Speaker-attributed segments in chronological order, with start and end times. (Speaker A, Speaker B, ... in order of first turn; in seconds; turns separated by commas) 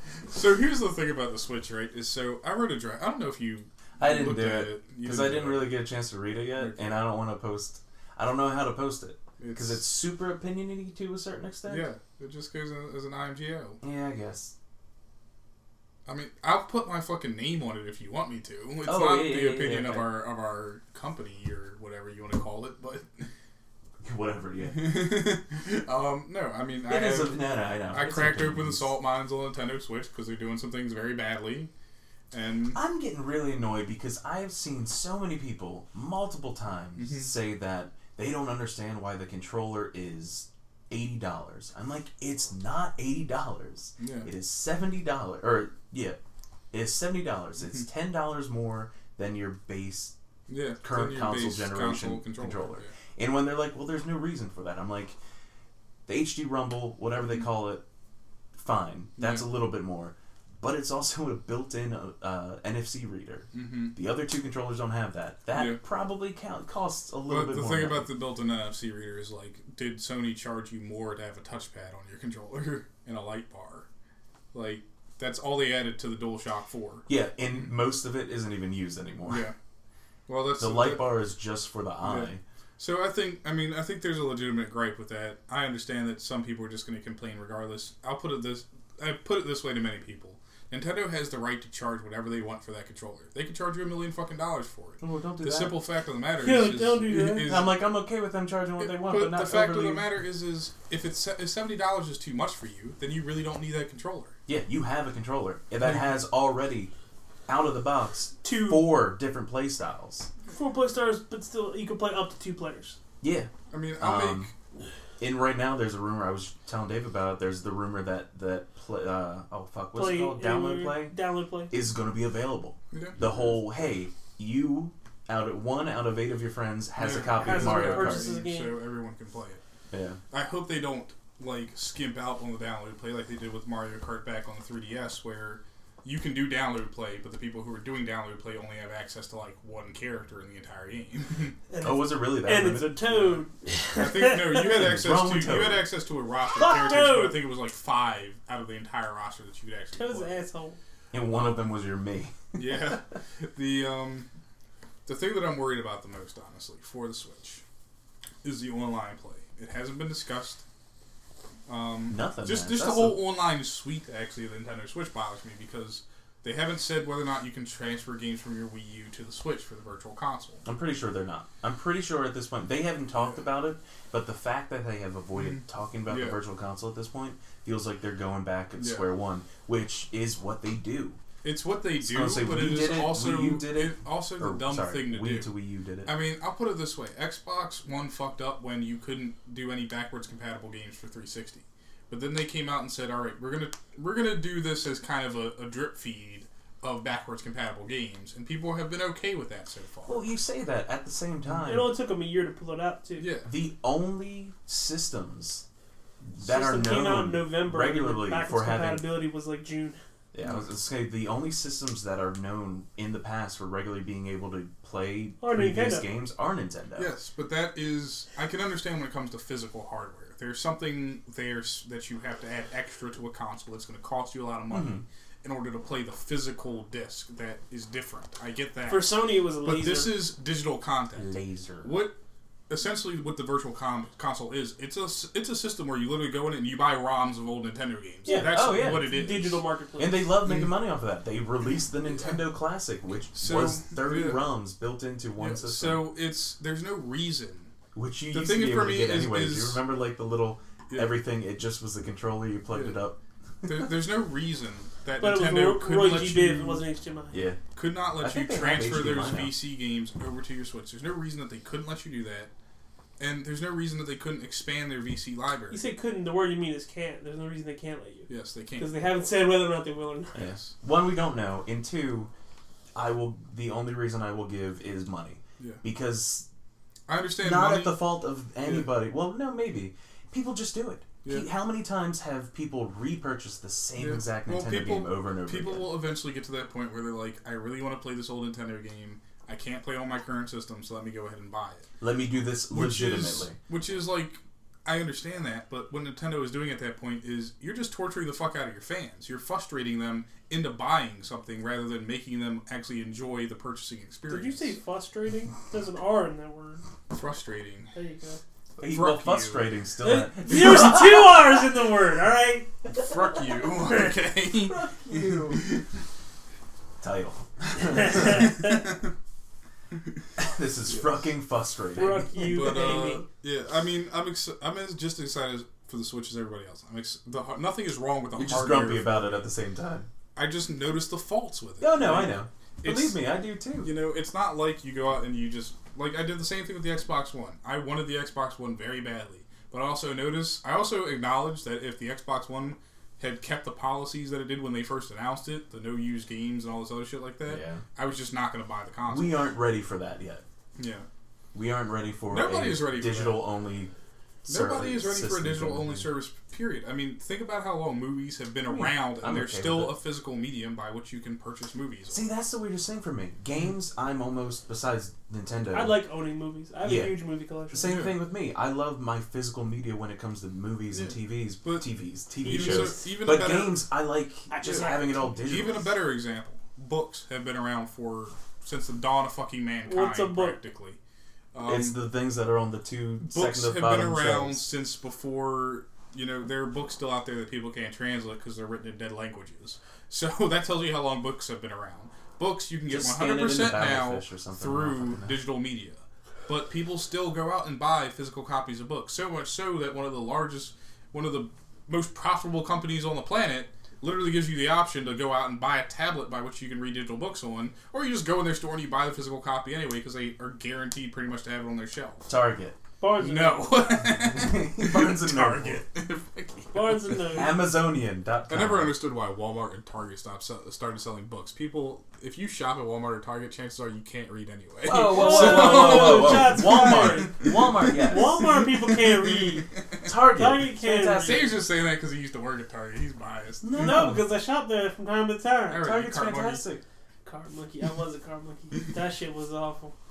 Speaker A: 0.3-5.8, Speaker B: 4.0-11.9, Speaker A: 6.5-7.0, Speaker A: 9.4-9.8, Speaker A: 11.7-13.8, Speaker B: 13.8-14.5, Speaker A: 16.1-23.3, Speaker B: 18.8-20.1, Speaker B: 24.0-24.9, Speaker A: 24.7-31.7, Speaker B: 26.9-28.9, Speaker A: 32.3-32.8, Speaker B: 32.7-46.2, Speaker A: 37.0-37.3, Speaker A: 44.0-44.3, Speaker B: 46.7-50.1, Speaker A: 50.5-52.9, Speaker B: 50.8-55.2, Speaker B: 56.0-57.8, Speaker B: 58.5-68.1, Speaker A: 59.2-59.4, Speaker A: 63.5-63.9, Speaker A: 65.5-65.8, Speaker A: 67.3-73.9, Speaker A: 74.5-77.1, Speaker B: 77.1-79.5, Speaker A: 79.3-79.5, Speaker A: 80.3-81.1, Speaker B: 80.6-82.4, Speaker A: 82.0-97.7, Speaker B: 95.0-95.8, Speaker C: 96.4-97.6, Speaker B: 97.4-100.1, Speaker A: 98.8-104.3, Speaker B: 104.5-106.9, Speaker A: 105.8-106.2, Speaker B: 107.5-110.3, Speaker C: 108.4-108.9, Speaker C: 110.5-113.0, Speaker B: 113.2-114.5, Speaker A: 113.7-114.5, Speaker B: 115.2-121.1, Speaker C: 119.9-121.7, Speaker B: 121.7-128.3, Speaker A: 122.9-123.6, Speaker A: 127.0-129.6, Speaker C: 127.3-128.8, Speaker B: 129.9-130.2, Speaker A: 130.3-141.6, Speaker C: 141.7-144.7, Speaker B: 141.8-143.3, Speaker A: 143.1-143.4, Speaker A: 143.9-150.4, Speaker B: 144.6-145.8, Speaker C: 146.5-147.4, Speaker C: 149.9-150.8, Speaker B: 151.1-152.3, Speaker A: 152.5-154.3, Speaker A: 155.1-157.6, Speaker A: 158.4-160.6, Speaker A: 161.7-170.6, Speaker B: 162.1-163.2, Speaker B: 170.6-181.2, Speaker A: 175.3-176.4, Speaker A: 178.8-179.1, Speaker A: 181.4-185.5, Speaker B: 182.0-186.1, Speaker A: 186.0-200.2, Speaker B: 200.1-201.9, Speaker C: 201.7-203.3, Speaker A: 203.2-203.5, Speaker B: 203.4-205.6, Speaker B: 206.2-209.0, Speaker C: 206.4-210.0, Speaker B: 210.3-217.1, Speaker A: 210.4-210.7, Speaker C: 215.4-216.1, Speaker A: 217.0-229.1, Speaker B: 224.7-225.0, Speaker C: 228.9-230.2, Speaker A: 229.6-232.1, Speaker B: 231.2-232.0, Speaker A: 232.7-239.6, Speaker C: 238.2-240.3, Speaker B: 238.3-239.1, Speaker B: 240.0-246.1, Speaker A: 240.4-240.8, Speaker A: 242.1-242.4, Speaker A: 243.3-244.4, Speaker A: 245.4-247.7, Speaker B: 247.9-253.2, Speaker A: 248.3-249.8, Speaker A: 252.7-253.0, Speaker A: 253.6-256.8, Speaker C: 255.2-257.4, Speaker B: 257.3-257.6, Speaker A: 257.8-262.5, Speaker B: 258.2-259.6, Speaker A: 263.2-265.8, Speaker C: 265.7-270.4, Speaker A: 268.3-268.9, Speaker A: 270.3-270.7, Speaker B: 270.3-272.3, Speaker B: 272.9-276.5, Speaker A: 277.1-278.1, Speaker B: 277.4-285.9, Speaker A: 278.6-278.9, Speaker A: 281.2-281.5, Speaker A: 284.0-291.9, Speaker B: 292.0-293.6, Speaker A: 292.7-304.8, Speaker C: 304.3-306.8, Speaker A: 307.1-307.9, Speaker C: 307.9-308.4, Speaker B: 308.8-311.4, Speaker A: 308.9-309.7, Speaker C: 310.0-314.1, Speaker A: 312.9-315.9, Speaker B: 314.7-315.6, Speaker B: 317.0-318.5, Speaker C: 317.9-318.8, Speaker A: 318.1-319.1, Speaker A: 319.9-320.2, Speaker B: 320.4-322.3, Speaker A: 320.9-321.2, Speaker C: 321.9-323.2, Speaker A: 322.3-329.2, Speaker B: 328.4-330.1, Speaker A: 330.4-333.2, Speaker B: 331.8-333.9, Speaker A: 333.8-349.4, Speaker B: 347.4-347.8, Speaker B: 349.1-350.4, Speaker A: 350.8-351.1, Speaker B: 351.5-353.9, Speaker A: 352.3-353.4, Speaker B: 354.5-356.1, Speaker A: 354.5-362.2, Speaker B: 358.7-359.9, Speaker B: 362.1-366.0, Speaker C: 365.7-367.9, Speaker B: 366.8-367.2, Speaker B: 367.7-375.9, Speaker A: 367.8-368.2, Speaker A: 370.9-371.9, Speaker A: 372.4-373.8, Speaker C: 372.4-373.1, Speaker C: 374.5-375.4, Speaker A: 375.4-381.0, Speaker C: 379.9-380.6, Speaker A: 381.5-382.0, Speaker B: 381.6-384.6, Speaker A: 383.2-412.3, Speaker B: 392.9-395.4, Speaker B: 412.3-412.8, Speaker C: 413.0-414.1, Speaker A: 413.2-417.3, Speaker B: 414.0-415.8, Speaker C: 416.7-417.6, Speaker B: 417.3-418.9, Speaker A: 418.5-430.1, Speaker B: 424.8-428.4, Speaker C: 424.9-429.7, Speaker B: 430.0-431.6, Speaker C: 430.2-431.5, Speaker A: 431.2-434.1, Speaker B: 433.6-434.2, Speaker C: 433.7-435.9, Speaker A: 435.7-436.6, Speaker B: 435.8-436.8, Speaker C: 437.2-439.9